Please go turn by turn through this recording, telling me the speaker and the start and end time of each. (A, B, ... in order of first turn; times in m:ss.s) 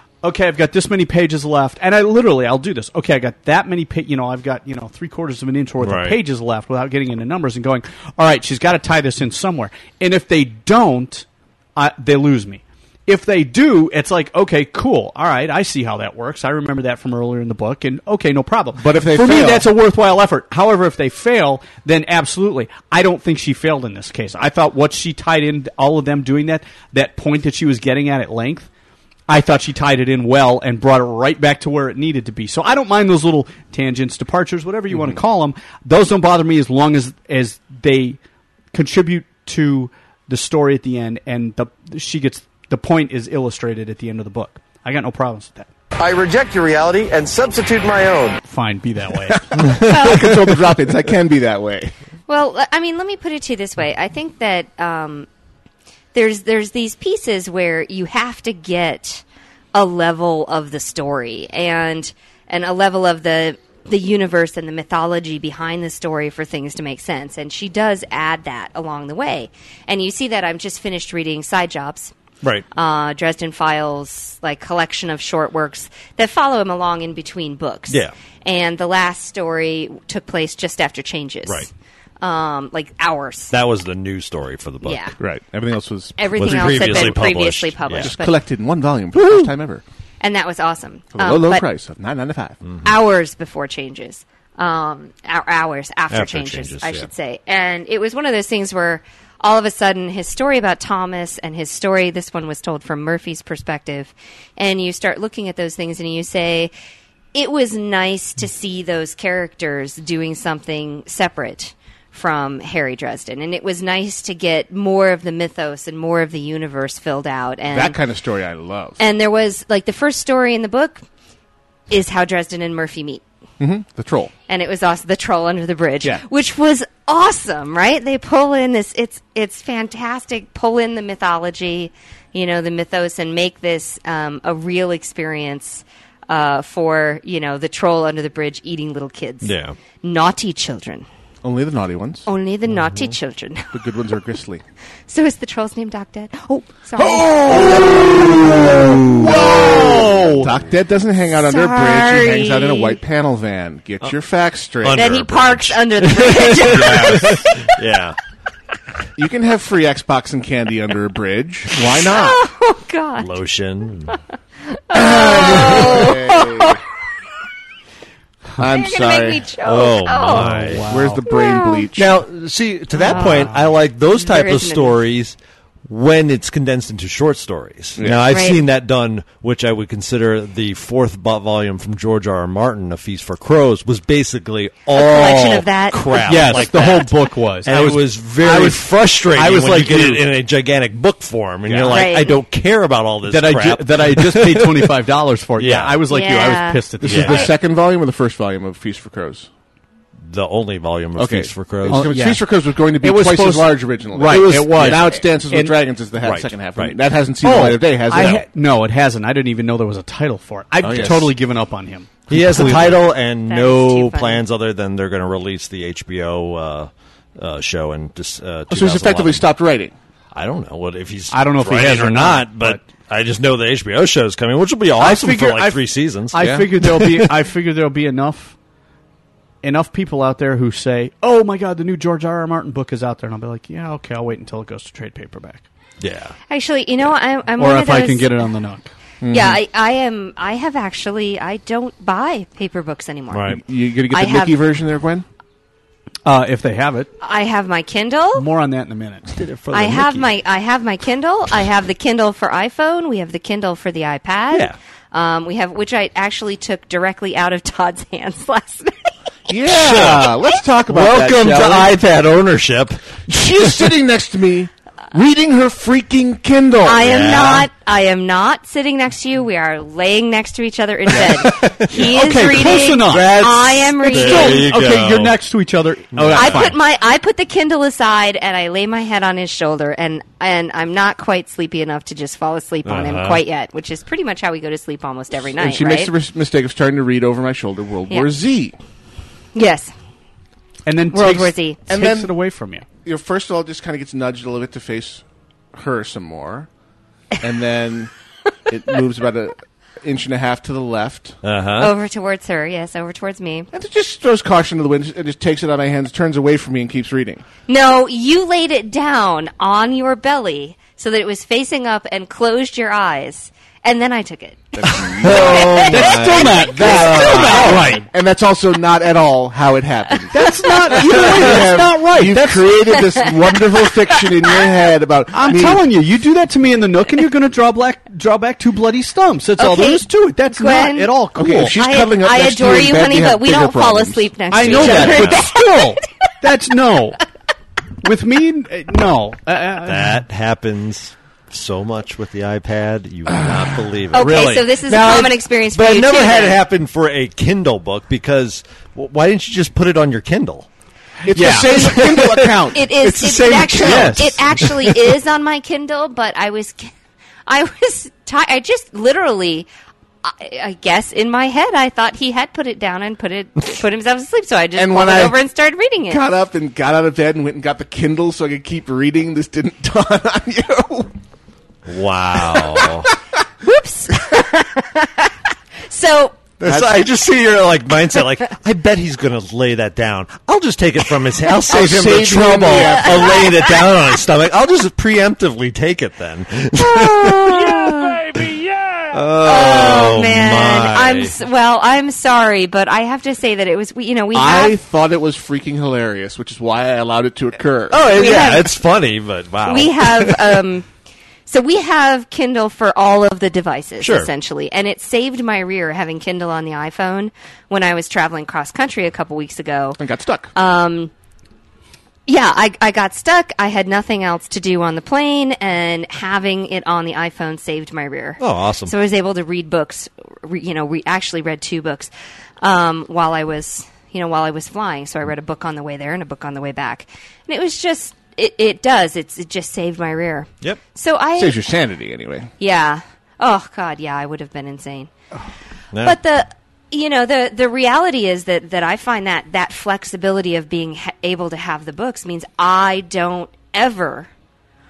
0:00.2-0:28.7 A
0:05.8-0:06.2 B
0:18.8-0:19.7 C
0:29.3-0:38.2 A
0:38.7-0:45.7 A
0:46.0-0:48.4 D
0:48.4-0:49.5 A
0:49.5-0:51.9 C
0:49.9-0:50.3 E
0:52.3-0:55.3 E
0:56.1-0:59.2 E
0:59.7-1:12.1 E
1:12.7-1:21.7 E
1:17.9-1:18.1 B
1:22.2-1:23.5 E
1:23.5-1:25.1 B
1:24.8-1:25.1 E
1:25.2-1:27.3 C
1:26.2-1:28.4 E
1:26.4-1:28.1 B
1:27.9-1:29.8 C
1:30.2-1:31.7 E
1:31.1-1:32.6 C
1:32.6-1:32.9 B
1:32.8-1:46.7 E
1:36.1-1:37.1 B
1:47.3-1:58.0 E
1:57.7-1:59.0 C
1:59.0-2:01.0 E
2:01.9-2:03.2 E
2:03.6-2:04.3 C
2:04.5-2:21.0 E
2:19.4-2:19.8 B
2:21.4-2:22.3 C
2:22.3-2:23.8 E
2:22.8-2:23.1 B
2:23.7-2:24.6 C
2:25.1-2:28.6 E
2:27.0-2:35.1 C
2:28.9-2:29.3 B
2:29.4-2:30.5 A
2:31.3-2:33.0 E
2:34.8-2:38.2 B
2:34.9-2:37.7 E
2:36.6-2:37.4 C
2:36.8-2:37.3 A
2:39.2-2:42.4 C
2:42.0-2:43.4 E
2:43.2-2:44.2 B
2:44.9-2:46.8 E
2:44.9-2:46.8 C
2:45.6-2:46.0 B
2:48.6-2:49.5 C
2:48.7-2:50.6 E
2:49.6-2:50.9 B
2:50.3-2:52.2 C
2:50.4-2:51.2 A
2:51.3-2:51.9 E
2:52.0-3:15.0 B
2:52.9-2:55.0 E
2:58.0-2:58.3 C
2:58.3-2:58.6 E
3:04.9-3:06.9 E
3:06.3-3:10.3 A
3:11.7-3:12.0 C
3:11.9-3:12.4 E
3:13.3-3:17.5 A
3:15.6-3:16.0 B
3:16.1-3:17.5 E
3:17.0-3:19.5 C
3:17.0-3:17.5 B
3:20.2-3:22.1 B
3:21.2-3:28.4 C
3:21.9-3:25.8 A
3:24.3-3:25.1 B
3:26.2-3:27.0 B
3:27.4-3:33.0 A
3:28.1-3:28.4 B
3:30.8-3:31.3 C
3:30.8-3:31.3 B
3:32.3-3:39.5 B
3:33.5-3:34.4 E
3:38.7-3:40.0 C
3:40.3-3:46.9 B
3:41.3-3:42.8 A
3:45.0-3:48.5 A
3:46.4-3:47.0 C
3:49.6-3:55.6 A
3:56.0-3:56.4 B
3:56.5-3:58.4 E
3:57.6-3:58.9 A
3:59.2-3:59.6 C
3:59.3-4:04.6 E
4:03.3-4:03.6 B
4:03.5-4:05.2 C
4:06.2-4:07.1 A
4:07.2-4:08.5 E
4:08.4-4:09.3 A
4:09.3-4:10.3 B
4:09.7-4:19.1 E
4:19.5-4:22.0 C
4:19.7-4:23.9 B
4:23.3-4:27.3 C
4:26.8-4:34.7 E
4:27.0-4:27.6 B
4:31.1-4:35.4 B
4:32.0-4:33.5 A
4:34.0-4:36.8 A
4:36.1-4:36.7 B
4:36.3-4:46.1 E
4:42.8-4:43.4 B
4:45.6-4:48.8 C
4:49.5-4:49.9 E
4:50.9-4:52.8 A
4:51.1-4:51.8 E
4:51.9-4:52.3 C
4:53.0-4:56.7 C
4:57.4-4:58.1 C
4:58.7-5:01.4 C
5:01.4-5:01.9 B
5:01.8-5:03.7 E
5:03.7-5:07.4 C
5:07.7-5:17.8 E
5:14.8-5:25.8 C
5:15.2-5:18.0 B
5:15.9-5:18.1 A
5:20.3-5:22.7 A
5:25.3-5:31.8 A
5:29.6-5:31.1 E
5:31.4-5:35.3 C
5:31.8-5:35.8 E
5:34.5-5:37.2 A
5:34.8-5:35.4 B
5:38.0-5:40.2 A
5:39.8-5:50.7 B
5:43.3-5:43.9 C
5:44.1-5:46.6 E
5:44.1-5:45.3 A
5:51.2-5:54.7 C
5:51.3-5:52.6 A
5:51.4-5:52.6 B
5:52.7-5:56.9 E
5:53.8-5:54.3 A
5:57.5-5:59.7 E
6:00.2-6:06.2 E
6:04.8-6:05.4 C
6:06.1-6:11.1 C
6:11.8-6:13.1 B
6:12.5-6:13.1 C
6:13.6-6:15.3 E
6:15.9-6:16.5 E
6:16.6-6:28.4 B
6:16.6-6:17.1 C
6:21.7-6:23.6 C
6:22.2-6:24.2 E
6:26.8-6:28.3 E
6:29.1-6:31.3 B
6:29.4-6:34.8 E
6:34.3-6:38.6 C
6:37.9-6:40.6 B
6:38.1-6:38.8 E
6:39.7-6:40.9 E
6:41.5-6:50.0 E
6:44.0-6:44.3 B
6:50.0-6:50.5 C
6:50.5-6:51.1 E
6:52.3-7:11.6 E
6:58.4-6:58.9 B
7:11.4-7:12.5 C
7:12.6-7:15.1 E
7:15.9-7:16.2 B
7:16.0-7:24.3 E